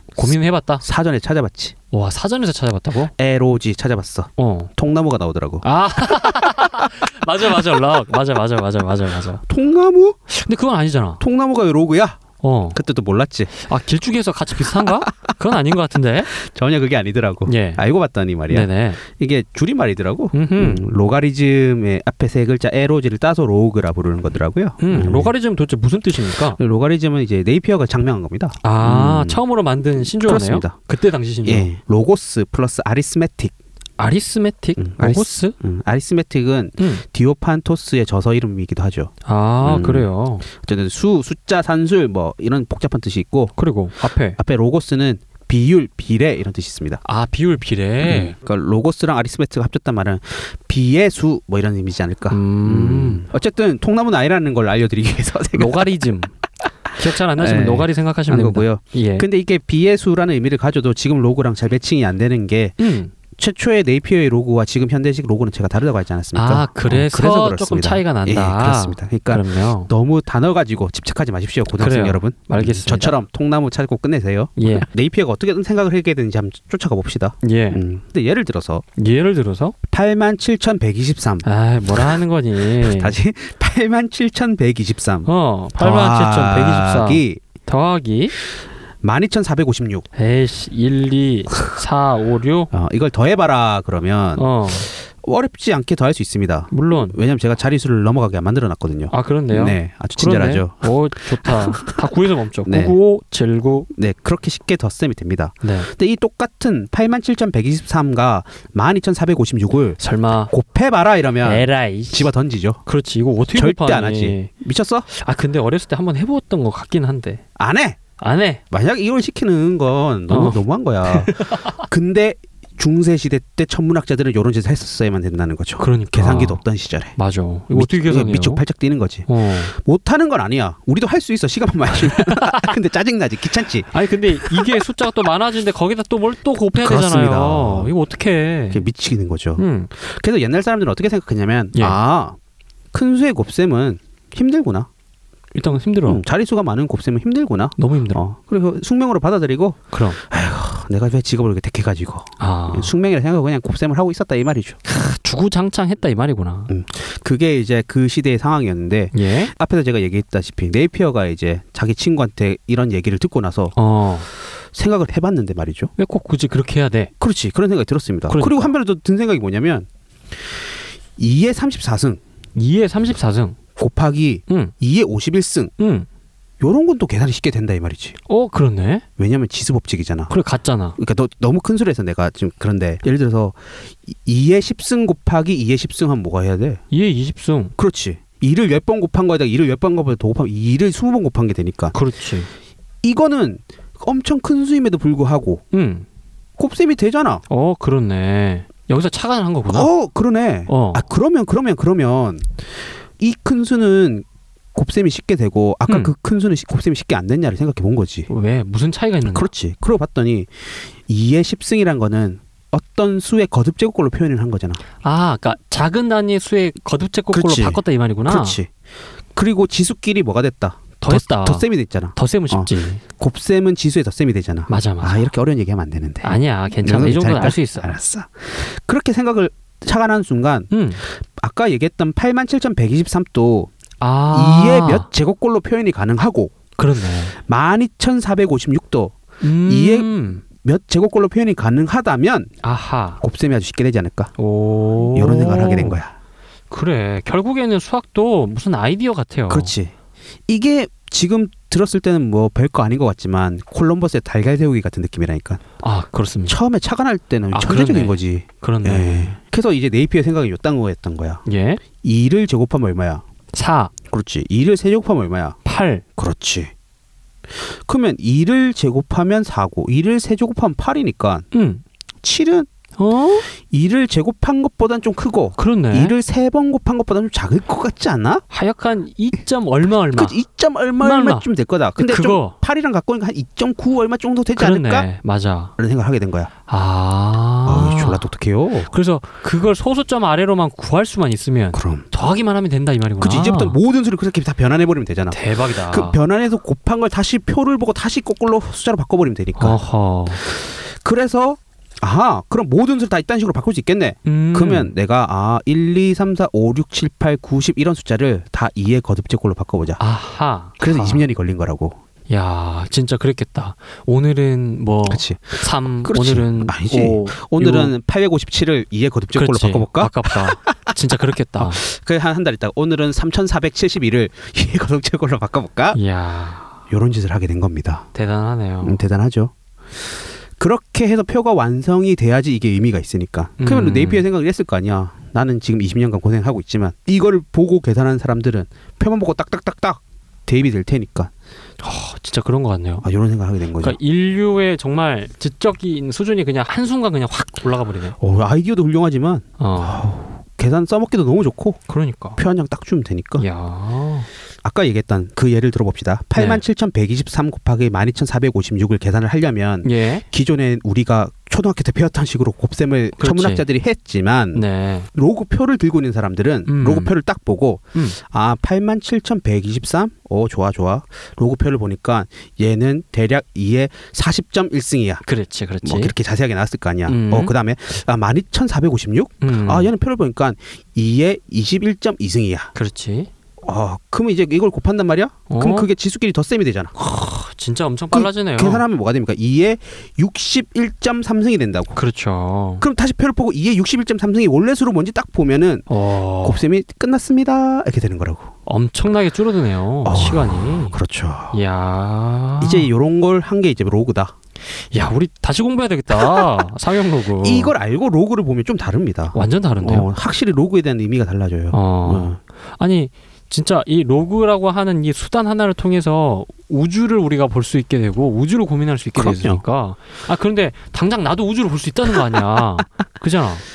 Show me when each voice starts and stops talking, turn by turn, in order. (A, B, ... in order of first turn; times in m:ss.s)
0:00.2-0:00.8 A
0:00.8-0:01.7 B
0:01.9-0:03.1 A
0:03.2-0:05.6 B
0:04.4-0:04.7 A
0:05.6-0:09.4 A
0:09.5-0:10.3 B
0:10.3-0:11.2 A
0:11.2-0:12.2 B
0:12.4-0:12.8 A
0:12.7-0:13.5 B
0:13.6-0:16.3 A
0:16.3-0:25.3 B
0:17.4-0:17.8 A
0:18.5-0:19.0 A
0:20.3-0:20.9 A
0:24.8-0:26.6 A
0:26.6-0:29.4 B
0:28.6-0:31.7 A
0:30.0-0:30.7 B
0:31.4-0:33.5 B
0:34.0-0:35.6 A
0:34.8-0:43.5 B
0:36.8-0:37.0 A
0:39.2-0:40.4 A
0:43.6-0:44.4 A
0:44.4-0:47.0 B
0:47.0-0:48.4 A
0:48.0-0:55.9 B
0:52.3-0:53.2 A
0:55.5-0:56.3 A
0:56.9-0:59.2 A
0:57.0-1:02.8 B
1:02.8-1:03.1 A
1:03.3-1:18.8 B
1:06.3-1:09.9 A
1:11.8-1:13.2 A
1:14.6-1:14.8 A
1:17.4-1:17.8 A
1:19.0-1:19.7 A
1:19.9-1:21.4 B
1:21.4-1:23.2 A
1:22.8-1:27.4 B
1:25.2-1:28.3 A
1:29.0-1:30.1 B
1:30.2-1:32.7 A
1:32.7-1:41.9 B
1:34.4-1:34.9 A
1:36.7-1:37.2 A
1:39.1-1:43.9 A
1:42.6-1:43.0 B
1:43.9-1:52.8 B
1:45.6-1:45.9 A
1:50.0-1:50.5 A
1:51.4-1:52.3 A
1:52.8-1:54.5 A
1:53.5-1:55.1 B
1:55.1-1:57.4 A
1:57.6-1:58.0 B
1:58.2-1:58.6 A
1:58.7-2:07.2 B
2:00.3-2:01.8 A
2:05.8-2:06.6 A
2:07.2-2:08.6 A
2:07.7-2:14.8 B
2:09.3-2:09.7 A
2:12.1-2:12.7 A
2:13.9-2:18.8 A
2:16.8-2:17.9 B
2:18.7-2:22.4 B
2:19.6-2:19.9 A
2:22.9-2:24.9 B
2:25.5-2:26.2 A
2:26.0-2:34.8 B
2:27.8-2:28.2 A
2:29.9-2:30.2 A
2:32.4-2:32.9 A
2:34.8-2:36.7 A
2:36.7-2:43.7 B
2:39.1-2:39.5 A
2:43.8-2:44.3 A
2:44.7-2:45.9 B
2:46.0-2:47.1 A
2:47.2-2:49.9 B
2:48.3-2:48.7 A
2:51.2-2:52.2 B
2:52.5-2:53.6 A
2:53.8-2:55.7 B
2:55.8-2:56.1 A
2:56.6-2:58.2 B
2:58.3-2:59.0 A
2:59.2-3:00.3 B
3:00.3-3:01.0 A
3:01.0-3:06.8 B
3:06.9-3:07.7 A
3:07.8-3:11.9 B
3:11.9-3:12.5 A
3:13.0-3:15.6 B
3:15.7-3:16.0 A
3:16.6-3:17.4 B
3:17.5-3:19.9 A
3:19.7-3:22.6 B
3:20.7-3:21.0 A
3:23.2-3:28.3 B
3:25.9-3:26.1 A
3:28.3-3:29.5 A
3:29.3-3:34.8 B
3:35.0-3:38.6 A
3:37.3-3:38.7 B
3:39.3-3:53.7 B
3:41.0-3:43.0 A
3:44.7-3:45.3 A
3:46.2-3:48.0 A
3:50.7-3:51.0 A
3:54.0-3:55.1 A
3:54.3-3:56.5 B
3:56.8-3:57.4 A
3:57.3-4:02.5 B
3:59.4-4:00.4 A
4:02.6-4:03.2 A
4:03.2-4:04.3 B
4:04.4-4:06.0 A
4:05.1-4:06.1 B
4:06.7-4:09.7 A
4:09.5-4:09.9 B
4:10.5-4:15.6 B
4:15.8-4:16.6 A
4:16.5-4:21.4 B
4:17.5-4:19.4 A
4:21.4-4:21.8 A
4:22.0-4:23.2 B
4:23.5-4:23.9 A
4:24.0-4:25.6 B
4:25.6-4:26.0 A
4:26.2-4:26.7 B
4:27.5-4:31.5 B
4:31.5-4:31.8 A
4:32.2-4:32.7 B
4:33.0-4:33.4 A
4:33.5-4:38.4 B
4:35.6-4:36.1 A
4:38.5-4:40.4 A
4:40.1-4:45.1 B
4:41.0-4:42.5 A
4:44.6-4:45.7 A
4:45.8-4:46.5 B
4:46.7-4:48.3 A
4:47.6-4:48.9 B
4:48.9-4:53.8 A
4:51.7-4:52.0 B
4:53.2-4:59.8 B
4:55.3-4:56.2 A
4:59.6-5:00.4 A
5:00.4-5:10.0 B
5:04.2-5:04.9 A
5:10.0-5:11.2 A
5:10.8-5:12.0 B
5:12.3-5:17.9 A
5:15.1-5:21.0 B
5:19.3-5:21.8 A
5:21.6-5:26.0 B
5:25.9-5:26.7 A
5:26.9-5:28.1 B
5:28.1-5:29.0 A
5:28.8-5:41.3 B
5:33.6-5:34.2 A
5:41.8-5:43.0 A
5:43.0-5:44.0 B
5:43.8-5:48.2 A
5:48.2-5:51.8 B
5:49.6-5:50.0 A
5:51.9-5:52.4 A
5:52.4-5:53.4 B
5:53.4-5:54.3 A
5:54.6-6:15.2 B
5:56.3-5:56.6 A
5:59.8-6:00.2 A
6:03.2-6:03.6 A
6:04.5-6:05.1 A
6:06.6-6:07.1 A
6:15.2-6:16.1 A
6:15.8-6:22.7 B
6:17.1-6:17.5 A
6:19.4-6:19.9 A
6:22.7-6:23.3 A
6:23.6-6:26.9 B
6:25.5-6:25.9 A
6:27.0-6:28.8 A
6:28.1-6:32.0 B
6:31.9-6:32.8 A
6:32.8-6:35.9 B
6:35.9-6:36.6 A
6:36.4-6:38.5 B
6:38.6-6:41.0 A
6:40.0-6:41.6 B
6:41.5-6:42.9 A
6:42.6-6:44.3 B
6:44.9-6:47.7 A
6:46.2-6:46.4 B
6:47.4-6:52.4 B
6:49.3-6:50.1 A
6:51.7-7:03.6 A
6:59.2-6:59.6 B